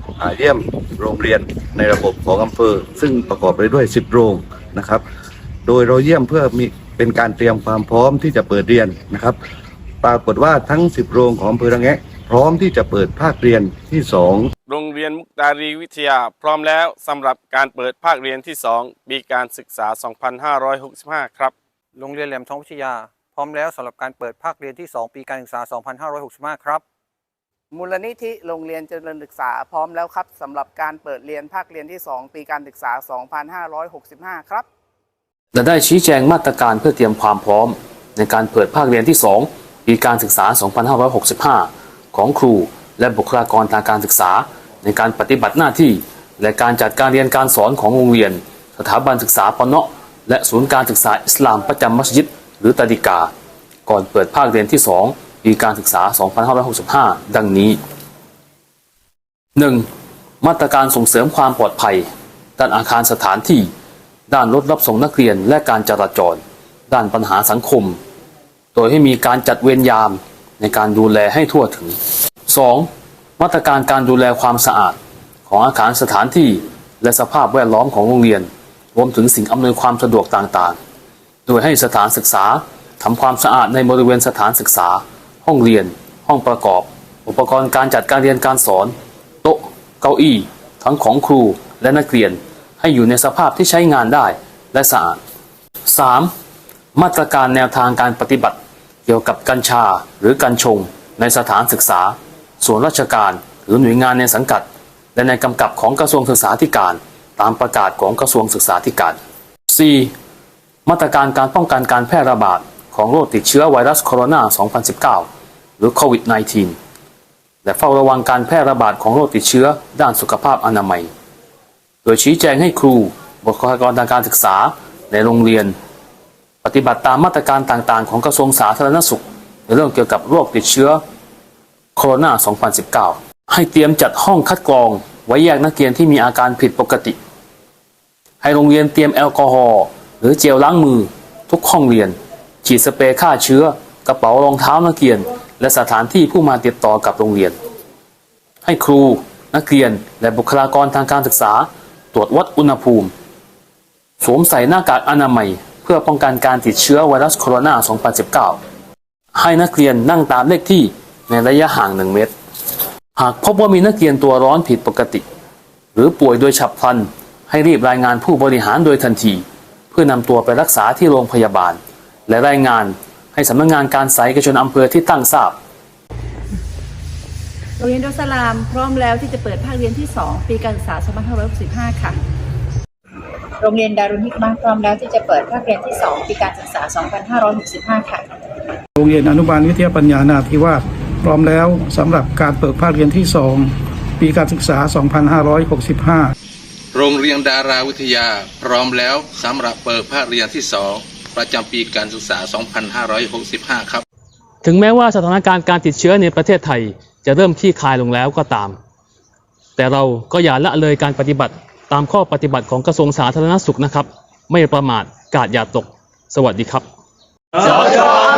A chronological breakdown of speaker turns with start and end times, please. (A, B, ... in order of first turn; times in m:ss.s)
0:00.2-0:05.0 A
0:05.7-0:09.4 A
0:10.0-0:14.5 A
0:14.7-0:21.5 B
0:22.0-0:26.8 C
0:27.7-0:34.6 D
0:35.5-0:53.3 E
0:53.8-0:57.8 E
0:59.6-0:59.8 E
1:00.4-1:02.0 E
1:02.6-1:03.7 E
1:04.3-1:08.0 E
1:08.7-1:12.0 E
1:12.5-1:12.9 E
1:13.4-1:20.8 E
1:21.4-1:28.9 E
1:29.4-1:35.2 E
1:35.8-1:36.3 E
1:36.9-1:50.1 E
1:50.8-1:55.3 E
1:55.8-1:56.8 E
1:57.6-2:01.1 E
2:02.0-2:05.7 E
2:06.6-2:11.0 E
2:12.0-2:17.2 E
2:18.4-2:27.6 E
2:28.6-2:33.1 E
2:34.2-2:38.6 E
2:39.3-2:42.3 E
2:43.2-2:45.2 E
2:45.9-2:55.6 E
2:57.8-3:02.2 F
3:03.6-3:08.2 G
3:09.0-3:16.3 H
3:16.9-3:24.0 I
3:24.6-3:28.8 E
3:29.8-3:36.8 E
3:37.6-3:38.0 E